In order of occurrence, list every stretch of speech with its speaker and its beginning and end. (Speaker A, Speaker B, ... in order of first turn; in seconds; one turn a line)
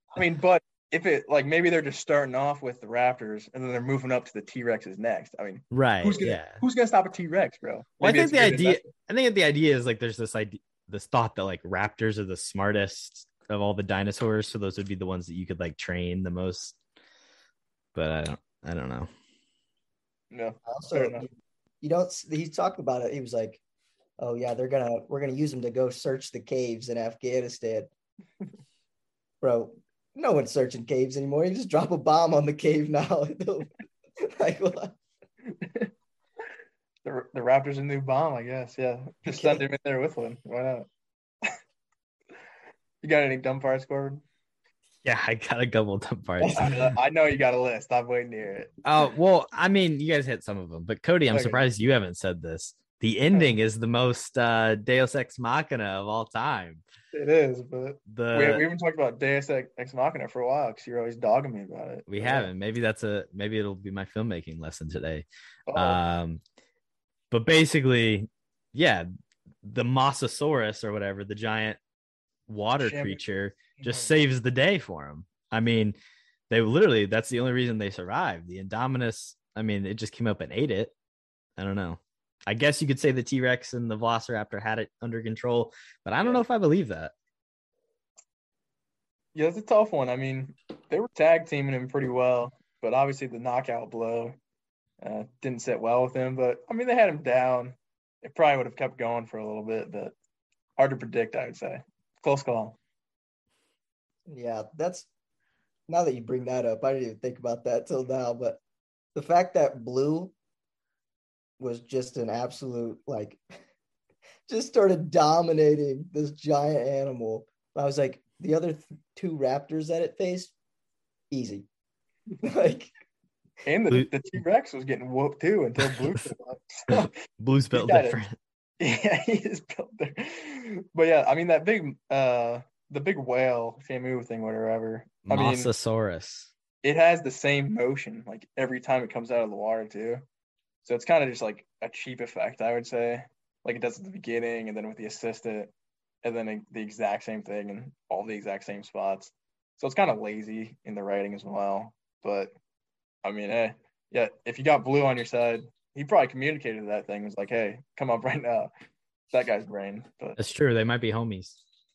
Speaker A: 0.1-8.9
Speaker B: 5.7-6.6
Speaker B: 8.0-16.8
Speaker B: 17.9-19.1
Speaker A: 20.3-21.2
Speaker C: 20.7-21.3
Speaker C: 21.8-23.6
Speaker C: 24.2-27.9
Speaker C: 29.4-33.7
Speaker C: 34.2-34.9
Speaker A: 35.5-35.9
Speaker A: 37.0-40.9
Speaker C: 39.3-39.6
Speaker A: 43.0-44.2
Speaker B: 45.0-46.8
Speaker C: 46.4-46.7
Speaker A: 46.6-48.7
Speaker B: 48.8-56.8
Speaker A: 51.3-51.6
Speaker A: 57.1-62.5
Speaker B: 58.1-58.6
Speaker B: 62.1-66.4
Speaker A: 65.7-66.0
Speaker B: 67.3-69.1
Speaker B: 69.6-71.8
Speaker B: 72.5-76.0
Speaker A: 72.8-73.2
Speaker A: 73.8-74.1
Speaker B: 76.5-80.9
Speaker B: 81.6-87.1
Speaker A: 89.3-94.4
Speaker A: 95.0-100.1
Speaker A: 100.8-102.8
Speaker C: 104.3-105.1
Speaker C: 105.9-108.6
Speaker C: 109.1-110.3
Speaker C: 111.6-113.4
Speaker C: 114.5-120.5
Speaker C: 121.3-121.7
Speaker C: 122.4-122.9
Speaker A: 123.6-127.1
Speaker B: 126.9-128.3
Speaker A: 127.7-128.2
Speaker A: 128.8-135.7
Speaker B: 135.3-136.5
Speaker A: 136.8-140.2
Speaker A: 140.8-145.7
Speaker A: 146.2-152.5
Speaker A: 153.2-158.7
Speaker A: 159.3-160.4
Speaker B: 160.4-161.6